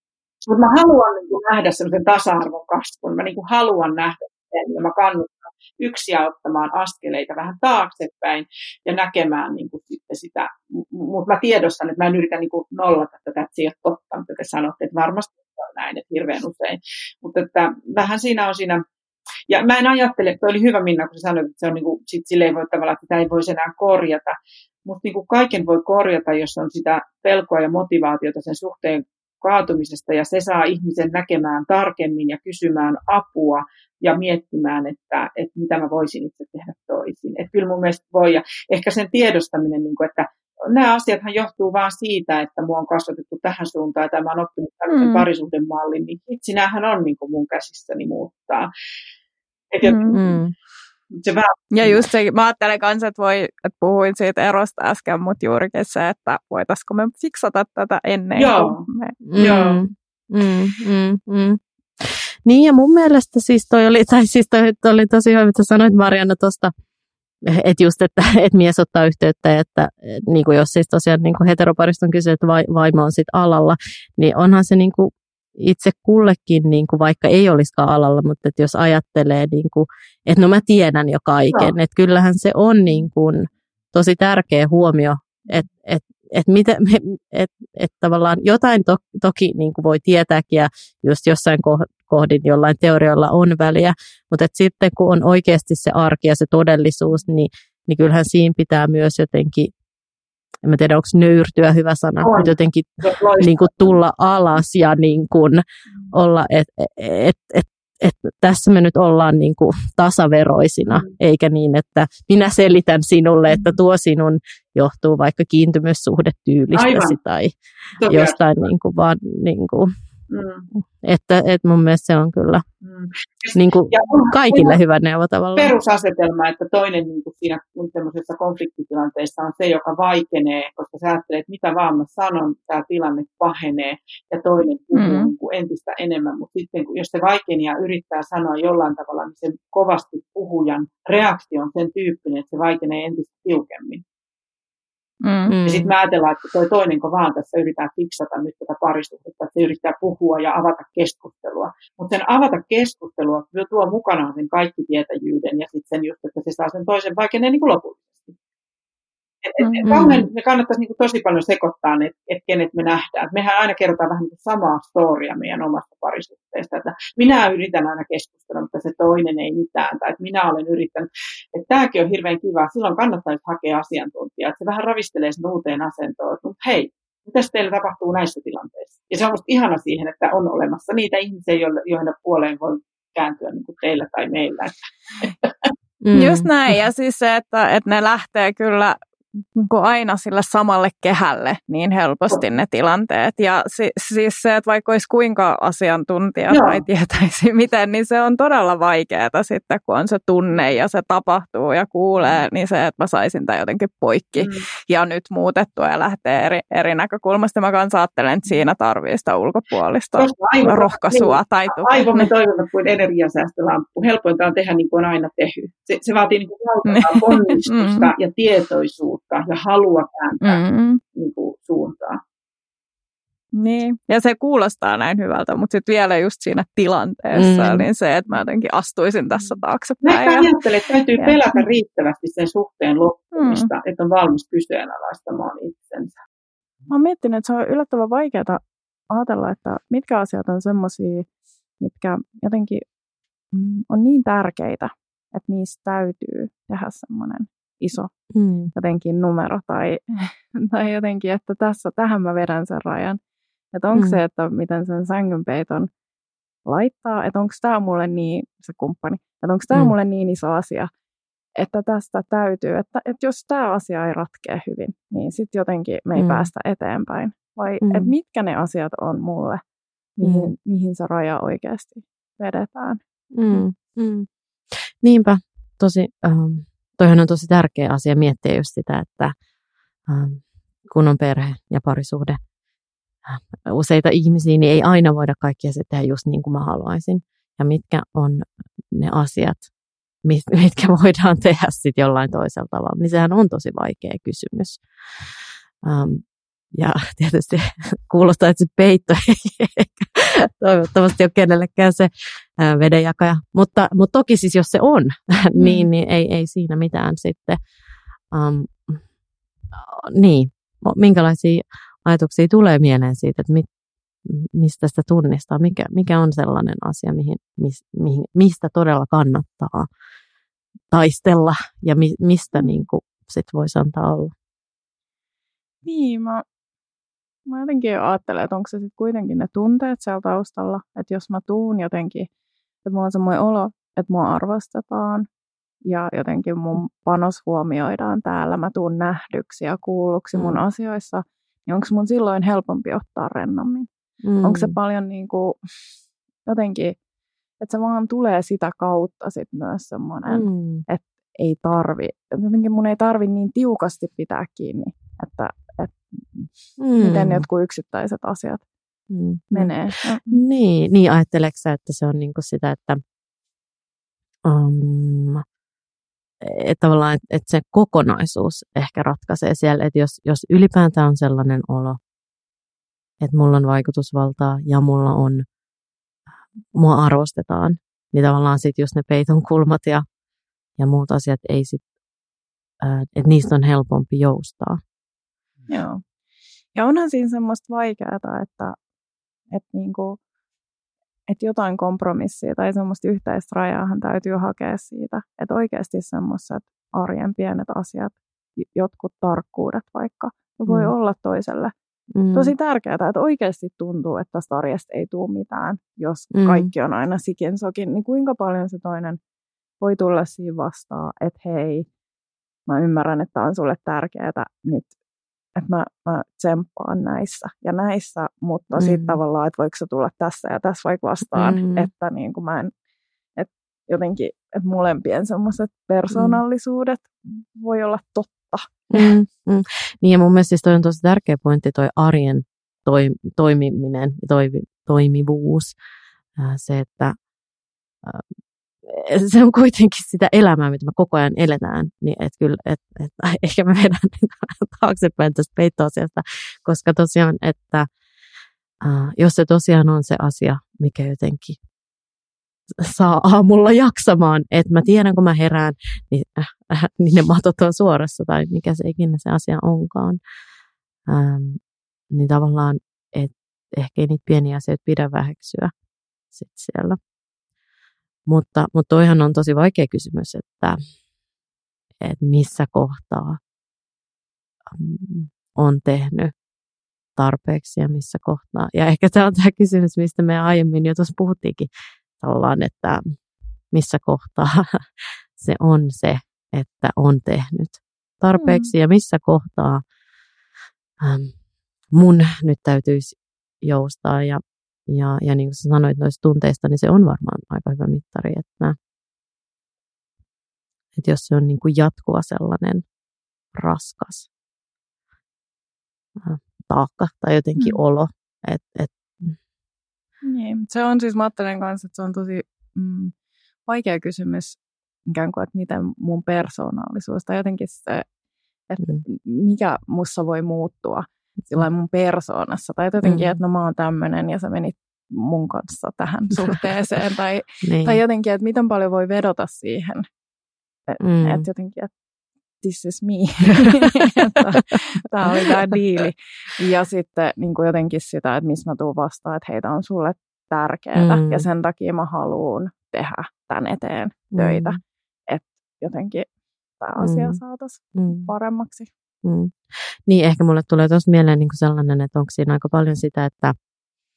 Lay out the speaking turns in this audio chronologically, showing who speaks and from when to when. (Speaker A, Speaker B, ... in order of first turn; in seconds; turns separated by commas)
Speaker A: 0.5-18.8, Speaker A: 19.5-48.7, Speaker B: 44.9-45.3, Speaker A: 49.7-50.4, Speaker B: 49.8-50.2, Speaker C: 50.1-50.5, Speaker A: 51.1-52.0, Speaker B: 51.7-59.7, Speaker A: 58.4-58.8, Speaker C: 59.2-66.7, Speaker A: 59.4-59.8, Speaker C: 67.5-99.7, Speaker C: 100.6-117.5, Speaker A: 102.2-104.0, Speaker A: 110.9-111.1, Speaker A: 116.7-117.2, Speaker A: 118.0-118.4, Speaker C: 118.1-119.9, Speaker A: 120.3-120.7, Speaker C: 121.0-122.6, Speaker A: 122.8-124.8, Speaker C: 123.5-125.7, Speaker A: 125.5-144.0, Speaker B: 134.9-135.3, Speaker B: 145.2-145.5, Speaker C: 145.5-145.9, Speaker A: 145.6-158.3, Speaker A: 159.4-185.7, Speaker B: 159.6-160.1, Speaker C: 159.8-160.2, Speaker C: 186.0-186.5, Speaker B: 186.1-189.0, Speaker B: 189.6-212.3, Speaker A: 196.5-196.8, Speaker A: 204.4-204.7, Speaker A: 210.2-220.6, Speaker B: 216.8-218.1, Speaker B: 220.4-221.0, Speaker A: 221.1-222.2, Speaker B: 223.6-230.5, Speaker C: 227.3-227.8, Speaker A: 230.0-236.1, Speaker B: 231.2-231.6, Speaker B: 233.3-233.7, Speaker B: 236.9-241.3, Speaker B: 241.8-242.8, Speaker B: 243.5-248.1, Speaker C: 248.3-248.7, Speaker B: 248.7-253.2, Speaker B: 253.7-255.9, Speaker C: 253.9-254.2, Speaker B: 256.6-260.9, Speaker C: 259.7-259.9, Speaker B: 261.6-269.6, Speaker C: 266.1-266.5, Speaker C: 267.8-268.1, Speaker B: 270.2-273.0, Speaker C: 270.2-270.5, Speaker C: 273.3-274.3, Speaker C: 275.0-279.3, Speaker C: 280.1-282.4, Speaker C: 283.2-289.7, Speaker C: 290.2-294.8, Speaker C: 295.8-307.6, Speaker B: 305.6-305.9, Speaker C: 308.3-309.0, Speaker C: 309.7-313.7, Speaker C: 314.2-319.9, Speaker C: 320.9-324.3, Speaker B: 322.6-322.8, Speaker B: 325.8-326.4, Speaker B: 327.5-332.3, Speaker B: 332.8-335.3, Speaker B: 335.8-343.9, Speaker C: 340.3-340.6, Speaker C: 344.2-344.8, Speaker B: 344.4-345.6, Speaker B: 346.4-346.9, Speaker B: 347.6-358.6, Speaker C: 350.3-350.8, Speaker C: 356.8-357.5, Speaker C: 359.1-359.7, Speaker B: 359.5-360.3, Speaker C: 360.3-363.0, Speaker C: 364.4-365.4, Speaker C: 366.4-372.0, Speaker C: 373.2-375.4, Speaker C: 376.7-380.0, Speaker C: 380.8-381.8, Speaker C: 382.8-384.8, Speaker B: 385.7-386.0, Speaker B: 386.7-388.8, Speaker B: 389.5-390.2, Speaker B: 391.3-401.7, Speaker C: 400.6-400.9, Speaker C: 402.1-402.5, Speaker B: 402.3-409.2, Speaker C: 406.3-406.7, Speaker B: 409.8-411.9, Speaker B: 412.7-414.9, Speaker B: 415.6-422.7, Speaker C: 418.8-419.2, Speaker C: 421.2-421.9, Speaker B: 423.4-429.1, Speaker C: 426.1-426.4, Speaker C: 428.9-435.7, Speaker C: 436.4-437.2, Speaker C: 438.8-447.9, Speaker C: 448.8-451.6, Speaker C: 452.8-460.2, Speaker C: 461.1-461.6, Speaker C: 462.1-465.7, Speaker C: 466.3-467.0, Speaker C: 468.3-470.8, Speaker C: 472.0-473.4, Speaker C: 474.7-476.3, Speaker C: 477.1-483.1, Speaker C: 483.7-484.6, Speaker C: 485.4-489.8, Speaker B: 488.4-488.7, Speaker C: 491.0-491.3, Speaker C: 491.9-498.8, Speaker C: 500.9-502.9, Speaker C: 503.5-504.3, Speaker C: 506.2-509.4, Speaker B: 510.2-513.1, Speaker B: 513.6-518.0, Speaker B: 518.7-530.0, Speaker C: 523.0-523.4, Speaker C: 527.6-528.0, Speaker B: 530.9-531.9, Speaker C: 531.0-531.5, Speaker B: 532.6-546.3, Speaker C: 540.9-541.5, Speaker C: 544.3-544.8, Speaker B: 546.8-548.9, Speaker C: 547.0-547.4, Speaker C: 547.9-548.3, Speaker C: 549.2-553.5